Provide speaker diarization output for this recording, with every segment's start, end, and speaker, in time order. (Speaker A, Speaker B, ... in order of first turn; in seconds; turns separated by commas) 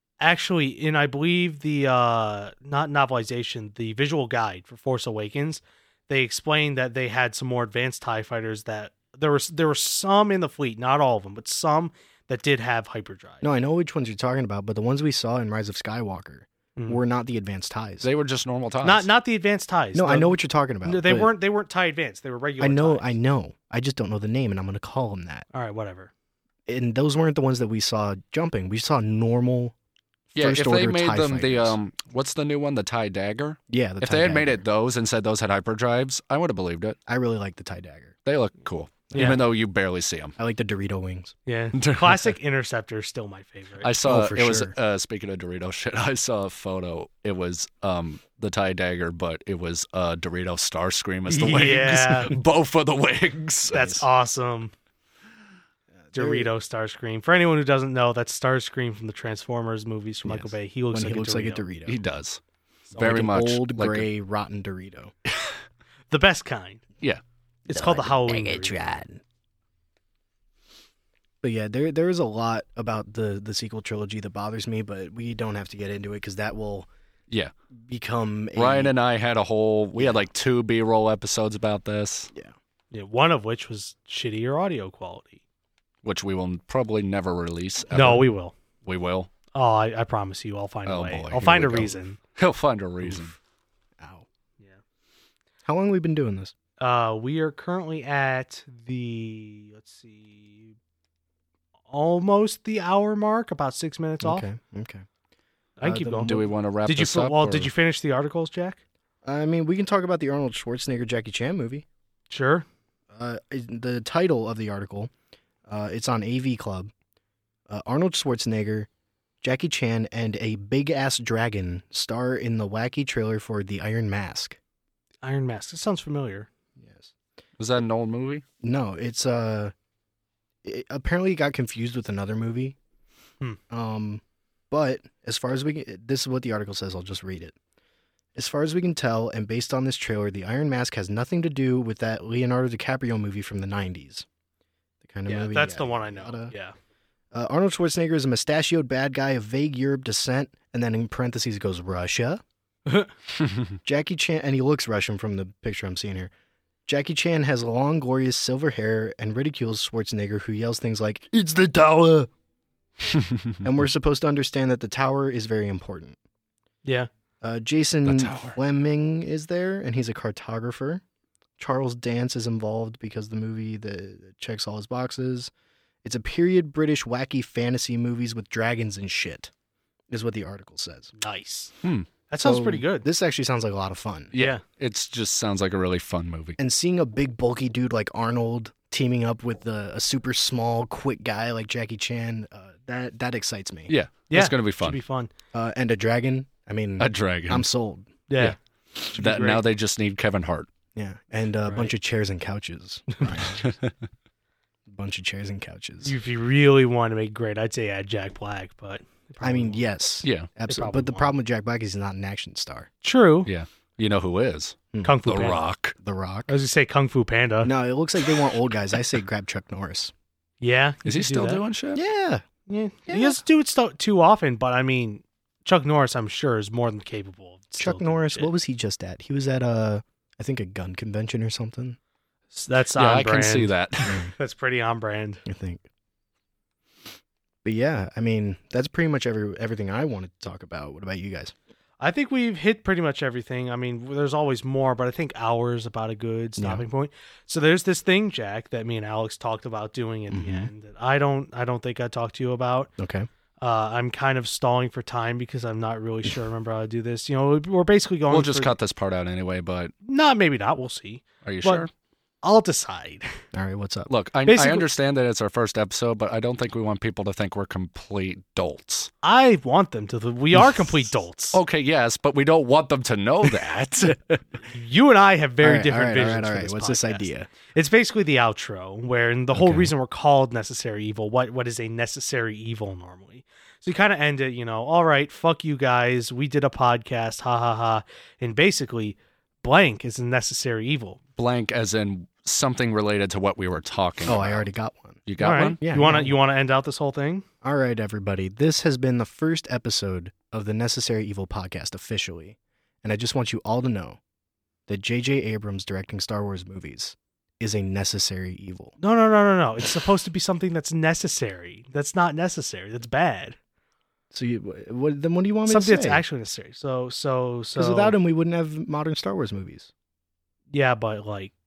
Speaker A: 0.2-13.4, Speaker B: 13.4-18.1, Speaker A: 16.8-17.0, Speaker C: 18.0-19.1, Speaker A: 18.8-23.2, Speaker B: 19.9-21.3, Speaker B: 22.6-25.5, Speaker A: 25.5-26.1, Speaker B: 26.7-29.7, Speaker B: 30.3-31.8, Speaker C: 30.3-37.0, Speaker B: 33.7-34.6, Speaker B: 37.1-38.1, Speaker C: 38.2-40.4, Speaker B: 39.1-39.4, Speaker A: 39.1-39.4, Speaker B: 40.4-41.4, Speaker A: 41.5-43.9, Speaker C: 41.8-42.3, Speaker C: 43.8-54.0, Speaker B: 44.0-44.7, Speaker A: 51.3-52.3, Speaker A: 53.7-54.7, Speaker B: 53.7-54.0, Speaker B: 56.0-56.5, Speaker A: 56.1-61.6, Speaker B: 60.2-62.0, Speaker C: 61.9-62.4, Speaker B: 62.9-65.1, Speaker C: 63.0-64.1, Speaker A: 66.1-66.8, Speaker A: 67.7-69.0, Speaker B: 67.7-69.2, Speaker B: 71.4-76.9, Speaker B: 77.8-78.9, Speaker C: 78.5-82.3, Speaker B: 79.9-80.3, Speaker A: 82.9-85.4, Speaker C: 86.0-88.2, Speaker A: 87.9-88.5, Speaker C: 88.8-89.3, Speaker A: 89.5-92.2, Speaker C: 90.8-93.3, Speaker B: 93.0-93.3, Speaker B: 94.0-94.2, Speaker B: 95.6-96.5, Speaker A: 96.8-100.7, Speaker A: 101.9-104.5, Speaker B: 104.2-105.0, Speaker A: 105.8-108.8, Speaker B: 105.8-106.5, Speaker C: 106.2-107.7, Speaker B: 109.2-111.8, Speaker A: 112.3-112.7, Speaker B: 113.1-115.1, Speaker B: 115.7-116.9, Speaker B: 117.7-118.9, Speaker B: 119.4-124.6, Speaker A: 125.2-126.5, Speaker B: 126.8-127.1, Speaker C: 127.6-128.4, Speaker B: 128.6-129.7, Speaker B: 130.6-132.8, Speaker B: 133.7-137.6, Speaker B: 138.3-144.2, Speaker B: 145.0-146.5, Speaker A: 145.2-146.7, Speaker B: 147.3-152.4, Speaker A: 152.8-153.1, Speaker B: 153.8-156.3, Speaker B: 156.9-162.3, Speaker B: 163.6-166.2, Speaker B: 167.4-171.0, Speaker C: 168.0-168.6, Speaker B: 171.6-175.5, Speaker B: 176.0-179.5, Speaker B: 180.1-181.1, Speaker A: 181.2-181.7, Speaker C: 181.8-182.1, Speaker A: 182.3-183.1, Speaker B: 182.4-184.3, Speaker C: 184.3-186.6, Speaker A: 184.3-184.6, Speaker B: 186.6-193.9, Speaker C: 193.9-195.0, Speaker A: 194.3-195.3, Speaker B: 195.5-198.1, Speaker C: 197.0-197.6, Speaker A: 198.3-198.6, Speaker C: 198.4-200.7, Speaker A: 199.1-199.6, Speaker B: 200.9-203.7, Speaker A: 201.6-201.9, Speaker A: 203.1-203.4, Speaker C: 203.6-203.9, Speaker B: 204.9-206.1, Speaker A: 206.0-209.8, Speaker B: 209.4-212.9, Speaker C: 210.2-210.5, Speaker A: 210.7-211.3, Speaker A: 213.0-213.5, Speaker C: 213.4-215.9, Speaker A: 215.0-215.6, Speaker B: 216.0-216.5, Speaker A: 216.5-217.7, Speaker B: 217.6-220.1, Speaker A: 220.6-221.6, Speaker C: 221.0-222.0, Speaker B: 221.9-222.4, Speaker A: 222.7-228.5, Speaker B: 223.1-223.4, Speaker B: 227.8-232.0, Speaker A: 232.5-235.4, Speaker C: 232.9-234.2, Speaker B: 234.1-234.3, Speaker B: 235.4-235.8, Speaker B: 237.6-241.5, Speaker A: 242.0-252.9, Speaker B: 246.6-246.8, Speaker B: 250.3-250.7, Speaker B: 253.0-253.3, Speaker A: 253.6-258.7, Speaker C: 258.3-259.9, Speaker A: 260.0-261.9, Speaker C: 261.4-261.9, Speaker A: 262.4-263.4, Speaker B: 263.5-264.1, Speaker C: 264.1-269.1, Speaker A: 264.4-264.9, Speaker A: 269.2-271.6, Speaker B: 270.6-270.9, Speaker C: 271.5-274.4, Speaker A: 274.6-291.2, Speaker B: 275.6-277.5, Speaker B: 279.6-279.9, Speaker C: 291.4-294.6, Speaker B: 294.2-295.2, Speaker C: 295.2-295.8, Speaker A: 295.4-297.4, Speaker B: 295.8-296.4, Speaker B: 297.6-304.2, Speaker B: 304.9-308.9, Speaker A: 309.0-313.6, Speaker B: 314.3-316.2, Speaker A: 315.6-318.1, Speaker B: 317.8-319.9, Speaker A: 320.7-321.5